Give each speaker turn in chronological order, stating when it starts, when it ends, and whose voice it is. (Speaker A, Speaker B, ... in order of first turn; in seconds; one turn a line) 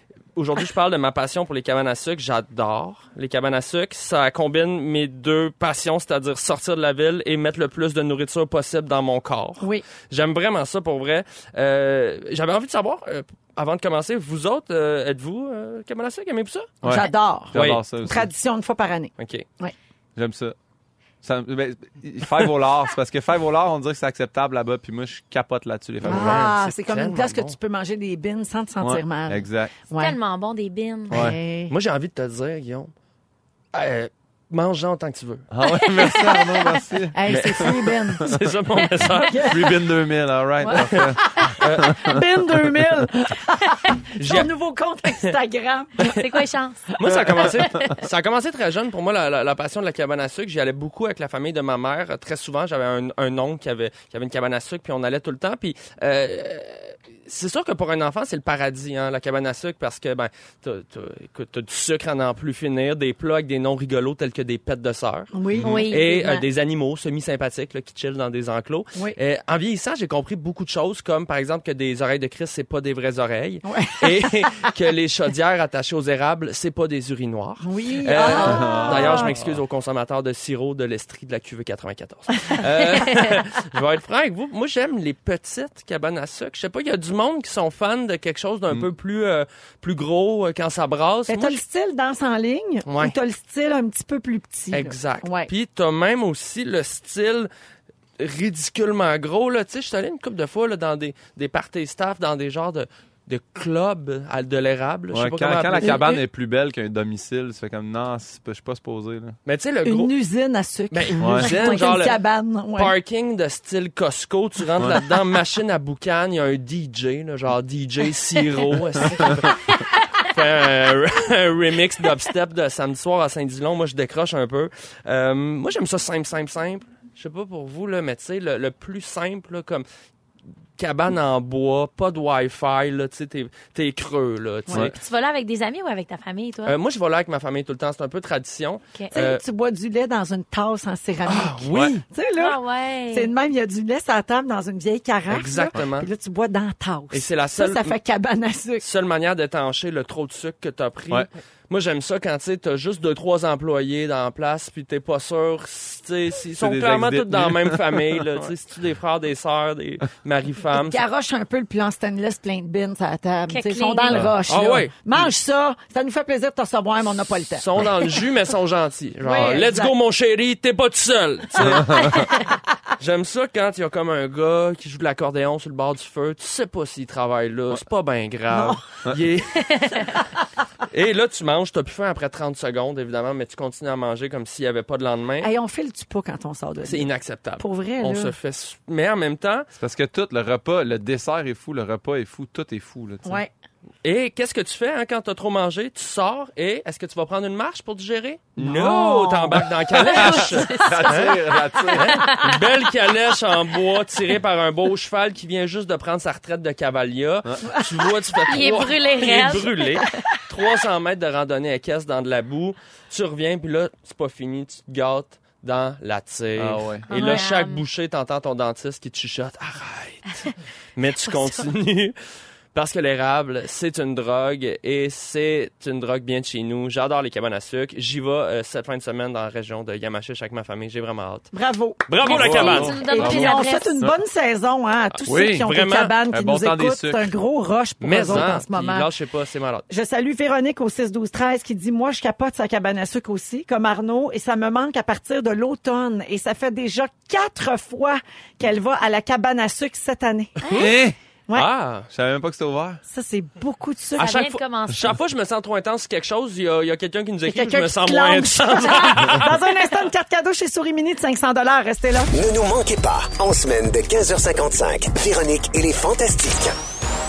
Speaker A: 0.3-16.9
Speaker B: 9.6-9.8
Speaker C: 16.8-18.3
Speaker B: 16.9-19.7
Speaker A: 17.5-17.8
Speaker A: 19.2-19.5
Speaker C: 20.2-20.6
Speaker C: 21.2-26.5
Speaker A: 26.0-27.5
Speaker B: 26.0-30.2
Speaker C: 28.8-29.8
Speaker D: 29.9-31.3
Speaker B: 31.1-31.7
Speaker A: 31.7-32.9
Speaker A: 33.7-35.5
Speaker C: 35.5-38.4
Speaker D: 35.6-36.8
Speaker B: 37.1-38.3
Speaker A: 37.3-37.7
Speaker A: 38.2-39.7
Speaker B: 39.2-39.9
Speaker C: 39.5-41.2
Speaker B: 40.6-46.2
Speaker A: 40.7-42.2
Speaker C: 41.8-42.8
Speaker A: 44.2-44.5
Speaker D: 46.1-46.9
Speaker A: 47.0-91.6
Speaker C: 47.0-47.6
Speaker B: 65.3-66.4
Speaker C: 65.5-65.8
Speaker D: 65.6-66.2
Speaker B: 73.7-74.7
Speaker B: 77.6-79.4
Speaker D: 78.2-78.9
Speaker C: 78.4-79.6
Speaker B: 91.3-95.5
Speaker A: 92.9-93.2
Speaker A: 94.7-97.5
Speaker A: 98.2-106.1
Speaker C: 105.1-109.4
Speaker B: 105.8-106.2
Speaker A: 109.5-110.1
Speaker B: 109.8-112.9
Speaker A: 110.9-112.2
Speaker C: 111.2-111.5
Speaker A: 112.7-129.8
Speaker A: 130.8-134.9
Speaker D: 134.7-136.8
Speaker A: 136.7-139.4
Speaker B: 139.1-148.8
Speaker A: 141.3-142.0
Speaker D: 142.4-143.3
Speaker A: 145.3-146.1
Speaker A: 147.1-148.0
Speaker A: 148.8-161.0
Speaker C: 156.6-158.5
Speaker B: 160.7-167.7
Speaker D: 163.5-164.2
Speaker A: 164.5-164.9
Speaker A: 167.5-172.4
Speaker B: 169.2-169.9
Speaker C: 171.6-172.3
Speaker A: 173.0-180.2
Speaker B: 178.5-178.8
Speaker D: 179.6-180.1
Speaker A: 180.9-185.5
Speaker B: 185.4-188.3
Speaker A: 186.8-189.7
Speaker C: 189.8-193.4
Speaker B: 193.2-193.5
Speaker A: 194.0-222.2
Speaker C: 198.6-198.9
Speaker B: 198.6-200.2
Speaker C: 199.6-202.3
Speaker D: 200.1-202.6
Speaker C: 207.5-207.7
Speaker B: 207.7-208.1
Speaker D: 208.5-210.2
Speaker C: 216.6-217.1
Speaker D: 217.1-217.8
Speaker A: 222.7-231.5
Speaker B: 231.5-239.1
Speaker A: 232.1-233.0
Speaker C: 232.2-234.2
Speaker D: 232.2-234.0
Speaker A: 235.1-236.2
Speaker C: 235.3-235.7
Speaker C: 236.3-237.3
Speaker A: 238.0-239.9
Speaker B: 239.9-250.9
Speaker D: 250.6-250.9
Speaker C: 250.7-251.2
Speaker A: 251.5-252.1
Speaker C: 252.1-253.0
Speaker B: 253.1-254.4
Speaker D: 254.2-255.1
Speaker A: 254.2-259.6
Speaker B: 257.5-262.3
Speaker E: 262.3-266.8